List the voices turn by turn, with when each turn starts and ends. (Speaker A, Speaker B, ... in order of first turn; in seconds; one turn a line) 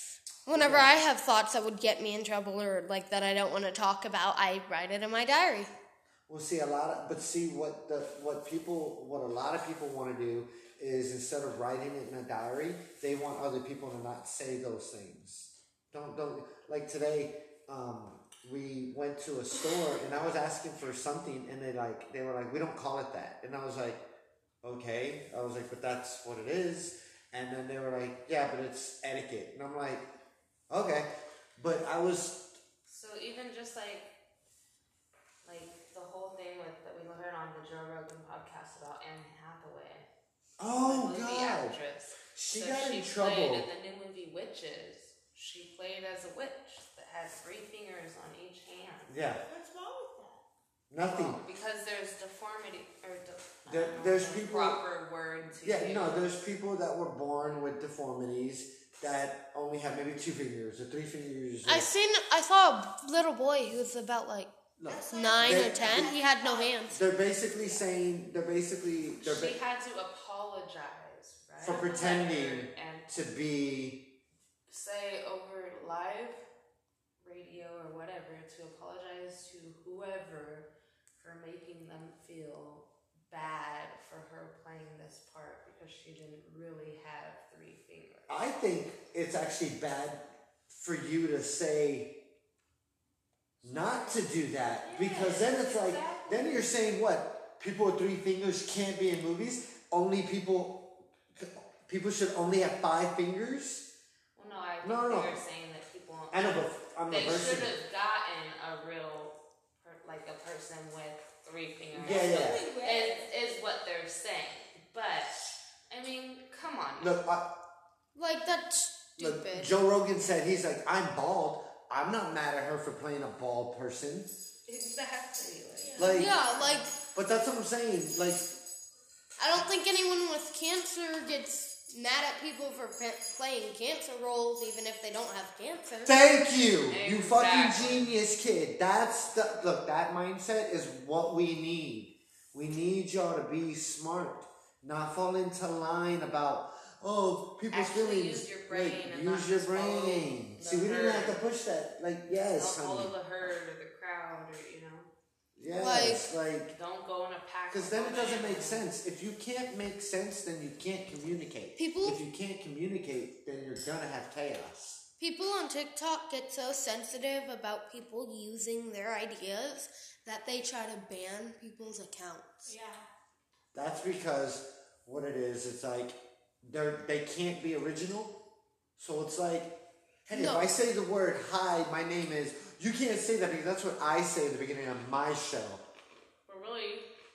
Speaker A: 0.5-5.7
Speaker B: 0.5-1.0
Speaker B: 6.3-24.0
Speaker B: 24.6-30.0
Speaker B: 30.7-32.5
Speaker C: 32.8-34.1
Speaker C: 35.4-40.1
Speaker B: 40.6-41.8
Speaker C: 40.8-49.1
Speaker B: 42.3-43.7
Speaker B: 49.1-49.4
Speaker D: 49.5-50.4
Speaker B: 50.9-51.4
Speaker C: 51.0-56.3
Speaker B: 53.6-54.8
Speaker B: 55.6-61.9
Speaker A: 61.6-64.5
Speaker B: 64.8-66.1
Speaker D: 64.9-66.9
Speaker A: 65.1-67.0
Speaker B: 66.9-69.6
Speaker C: 67.6-67.8
Speaker C: 69.2-73.1
Speaker B: 71.6-74.0
Speaker C: 74.7-76.5
Speaker C: 77.2-88.4
Speaker B: 88.3-92.1
Speaker B: 93.6-103.8
Speaker C: 93.7-94.2
Speaker C: 94.8-96.7
Speaker C: 104.3-115.3
Speaker B: 104.8-105.3
Speaker B: 106.3-107.7
Speaker B: 111.9-112.6
Speaker D: 112.0-113.4
Speaker C: 115.9-117.2
Speaker B: 117.0-117.5
Speaker A: 118.1-119.7
Speaker B: 119.2-124.3
Speaker C: 124.7-126.8
Speaker D: 125.8-126.5
Speaker B: 126.0-126.3
Speaker A: 126.0-126.9
Speaker B: 127.1-128.5
Speaker A: 129.4-136.1
Speaker B: 136.0-153.1
Speaker C: 136.9-138.1
Speaker C: 147.7-151.4
Speaker C: 152.5-155.1
Speaker B: 155.6-156.8
Speaker A: 155.7-156.2
Speaker C: 156.7-158.8
Speaker B: 157.7-165.0
Speaker A: 161.8-162.2
Speaker A: 165.2-172.7
Speaker D: 172.6-173.1
Speaker B: 173.7-178.3
Speaker B: 179.0-179.7
Speaker B: 180.3-185.8
Speaker A: 180.3-180.6
Speaker C: 186.5-187.1